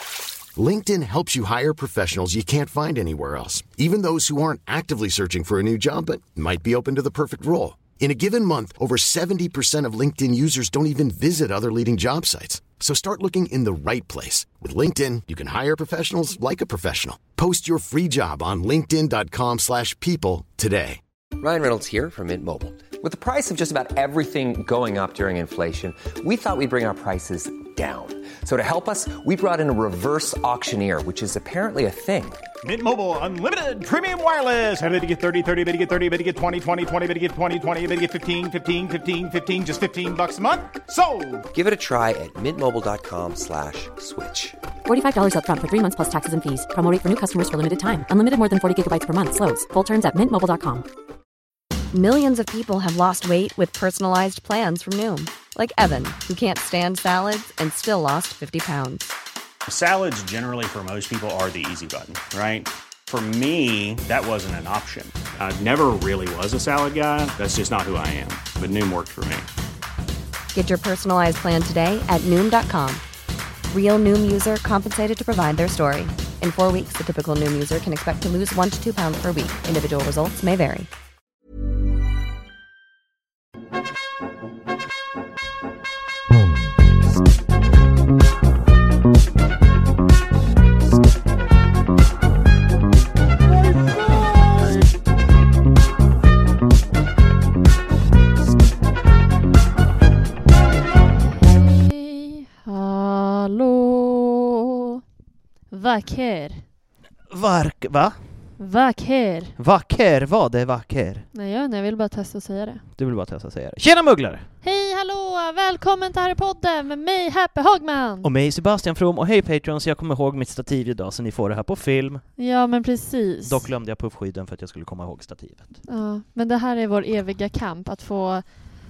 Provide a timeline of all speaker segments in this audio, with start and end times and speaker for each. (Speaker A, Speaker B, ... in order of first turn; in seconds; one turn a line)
Speaker A: 0.5-21.0
Speaker B: 21.4-32.4
Speaker C: 32.6-41.5
Speaker B: 41.5-44.6
Speaker D: 44.9-50.9
Speaker E: 51.9-59.1
Speaker F: 59.7-69.5
Speaker E: 70.5-73.0
Speaker E: 73.7-80.9
Speaker G: 101.5-105.0
Speaker G: 105.7-106.6
Speaker H: 107.3-108.2
Speaker G: 108.6-109.5
Speaker H: 109.6-111.3
Speaker G: 111.3-112.8
Speaker H: 113.0-114.5
Speaker G: 114.6-118.3
Speaker H: 118.2-122.2
Speaker G: 122.4-123.7
Speaker H: 123.4-125.8
Speaker G: 125.9-128.4